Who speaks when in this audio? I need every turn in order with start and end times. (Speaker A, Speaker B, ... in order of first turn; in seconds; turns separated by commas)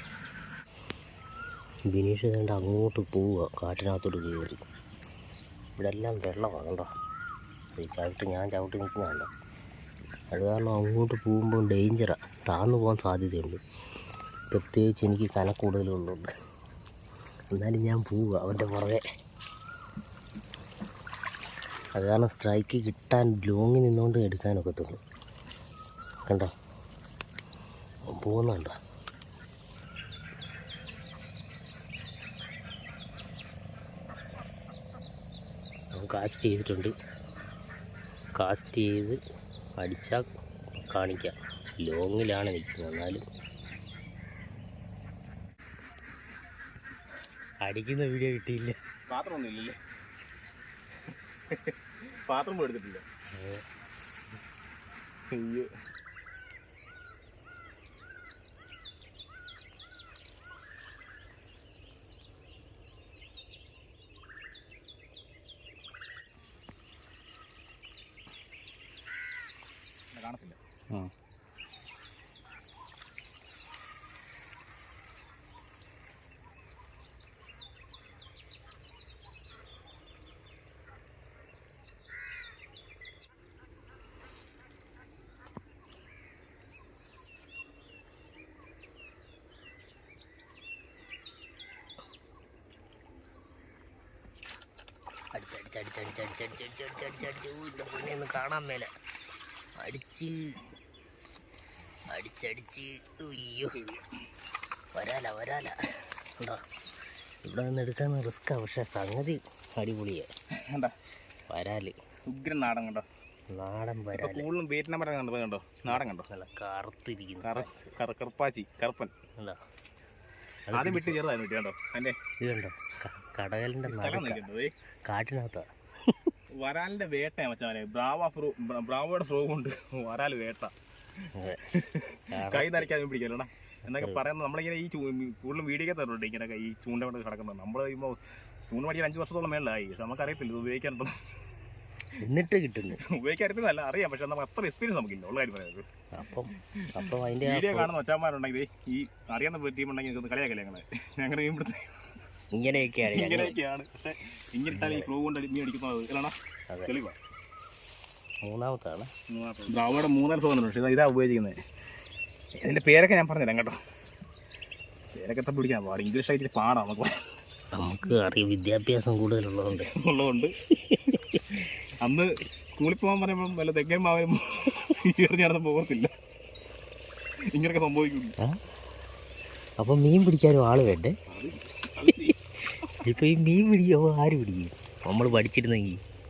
Speaker A: 1.9-4.6, Speaker A: 5.8-6.9, Speaker A: 7.8-9.3, Speaker A: 10.3-13.6, Speaker A: 14.5-16.3, Speaker A: 17.5-19.0, Speaker A: 22.0-25.0, Speaker A: 28.1-28.7, Speaker A: 36.0-36.9, Speaker A: 38.4-39.2, Speaker A: 39.8-40.3, Speaker A: 40.9-43.2, Speaker A: 47.6-48.8, Speaker B: 49.1-49.8, Speaker B: 52.3-53.0, Speaker A: 53.4-53.6, Speaker B: 55.3-55.7, Speaker B: 70.1-71.1, Speaker A: 95.3-98.9, Speaker A: 99.8-100.6, Speaker A: 102.1-103.8, Speaker B: 103.7-104.0, Speaker A: 105.0-105.7, Speaker A: 107.5-110.3, Speaker A: 111.5-112.0, Speaker B: 112.3-113.0, Speaker A: 113.5-114.5, Speaker B: 114.1-116.3, Speaker A: 115.9-118.0, Speaker B: 117.4-119.1, Speaker A: 120.7-121.2, Speaker B: 120.8-122.1, Speaker A: 122.4-124.4, Speaker B: 123.9-124.7, Speaker A: 125.1-126.3, Speaker B: 126.6-130.7, Speaker A: 131.4-131.6, Speaker B: 131.7-141.1, Speaker A: 132.3-132.9, Speaker A: 133.9-134.3, Speaker A: 142.2-143.0, Speaker B: 143.1-145.9, Speaker A: 146.2-147.9, Speaker B: 146.6-151.9, Speaker A: 152.5-153.6, Speaker B: 153.1-156.3, Speaker A: 154.7-155.1, Speaker B: 156.9-157.2, Speaker A: 158.4-159.1, Speaker B: 159.3-161.6, Speaker B: 162.6-163.8, Speaker B: 165.2-167.1, Speaker A: 167.8-169.9, Speaker B: 169.7-170.5, Speaker A: 170.8-171.4, Speaker B: 171.5-176.1, Speaker B: 177.5-178.3, Speaker A: 179.8-181.2, Speaker B: 181.3-182.4, Speaker A: 183.0-186.0